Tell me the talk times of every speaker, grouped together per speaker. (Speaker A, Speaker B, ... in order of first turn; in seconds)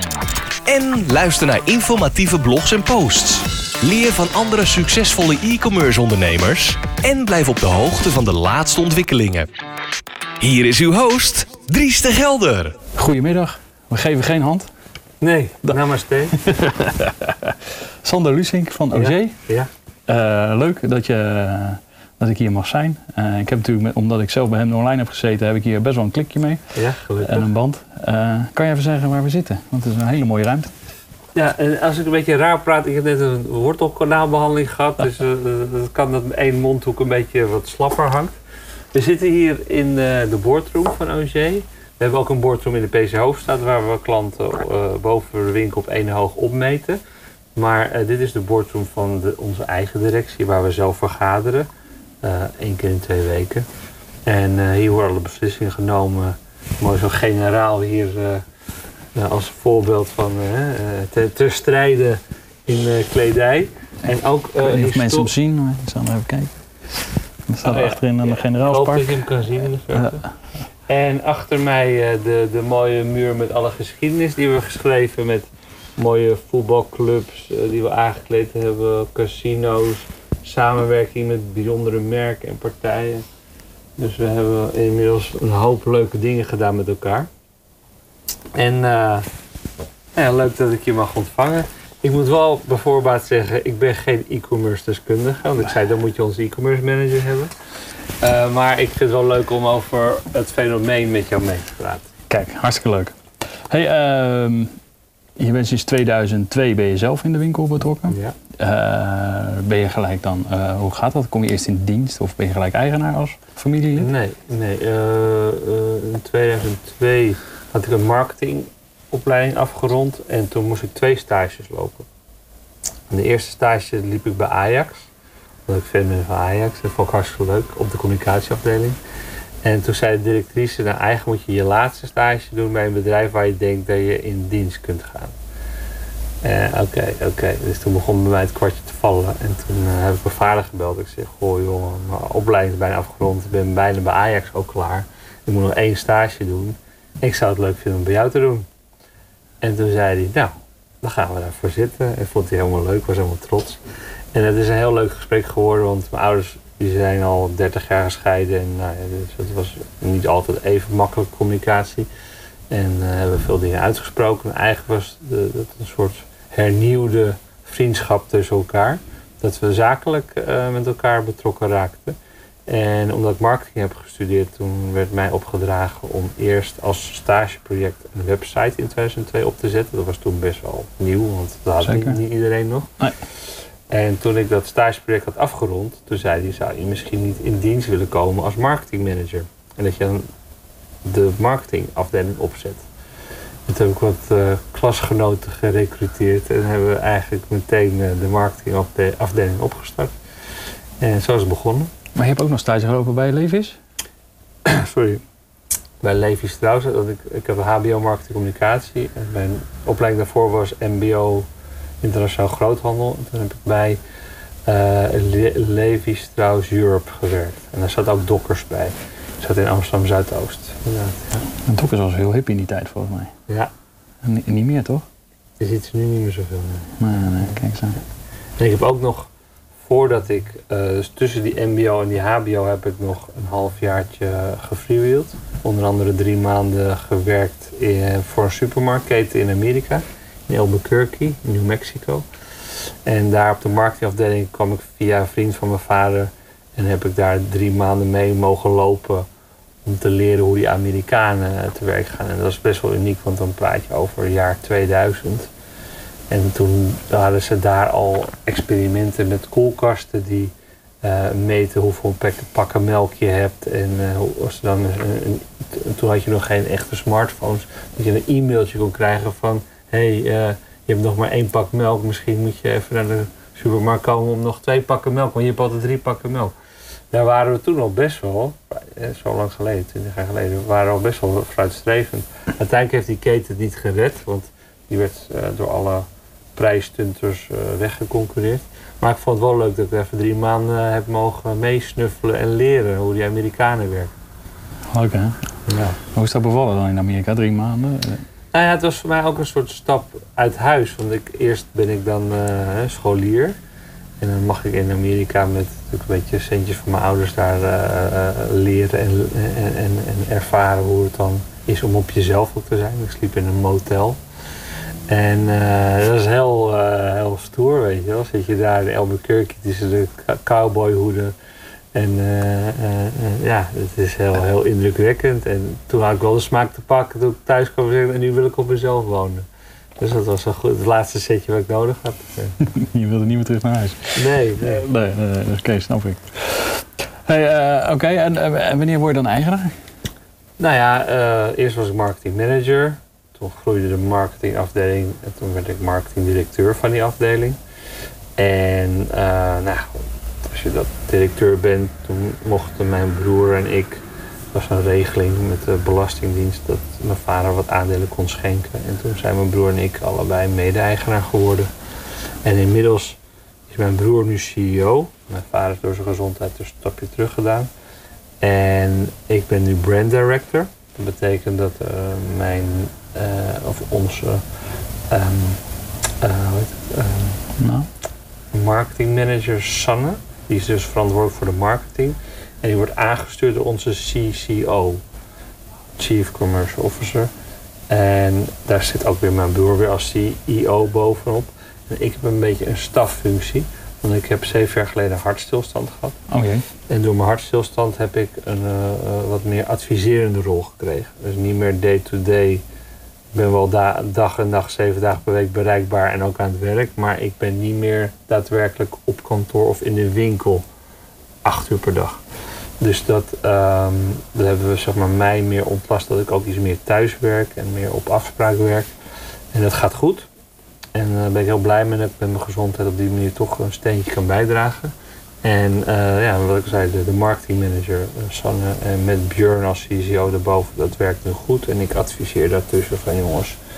Speaker A: 0.7-9.5, 10.4-12.8
Speaker B: 12.9-14.7, 16.3-19.4, 20.1-30.7, 64.6-69.3, 102.3-104.8, 105.3-114.1, 181.8-182.2, 202.2-203.8, 221.7-223.3, 224.2-225.1, 227.0-228.0, 294.9-295.4, 296.1-298.2, 332.6-339.8, 377.6-377.9, 396.3-396.6
Speaker C: 15.2-16.4, 18.9-19.7, 26.8-27.5, 31.4-38.3, 38.9-47.0, 47.5-51.7, 52.2-53.7, 54.2-58.5, 59.1-65.3, 67.6-70.3, 70.8-83.2, 84.0-87.3, 88.5-89.2, 90.1-97.5, 98.2-102.1, 108.1-108.3, 114.0-122.1, 123.1-125.1, 125.7-129.0, 129.6-135.3, 136.4-148.7, 149.6-153.8, 154.3-162.1, 162.7-190.3, 191.1-192.9, 193.7-200.2, 201.0-201.9, 204.7-205.2, 206.0-211.5, 212.0-214.0, 214.7-221.5, 225.6-227.7, 228.6-229.3, 229.8-249.3, 249.8-255.5, 256.3-276.5, 277.1-294.1, 295.6-296.0, 298.5-303.6, 304.2-314.2, 315.1-321.3, 321.9-329.4, 330.0-332.6, 334.1-334.8, 340.6-347.6, 348.4-361.7, 362.4-363.2, 363.7-367.7, 368.4-375.6, 376.2-377.5, 378.5-385.0, 386.0-387.3, 387.9-396.2, 396.9-402.6, 403.3-410.6, 411.4-412.2, 412.8-418.9, 419.5-420.3, 420.9-424.9, 425.4-433.6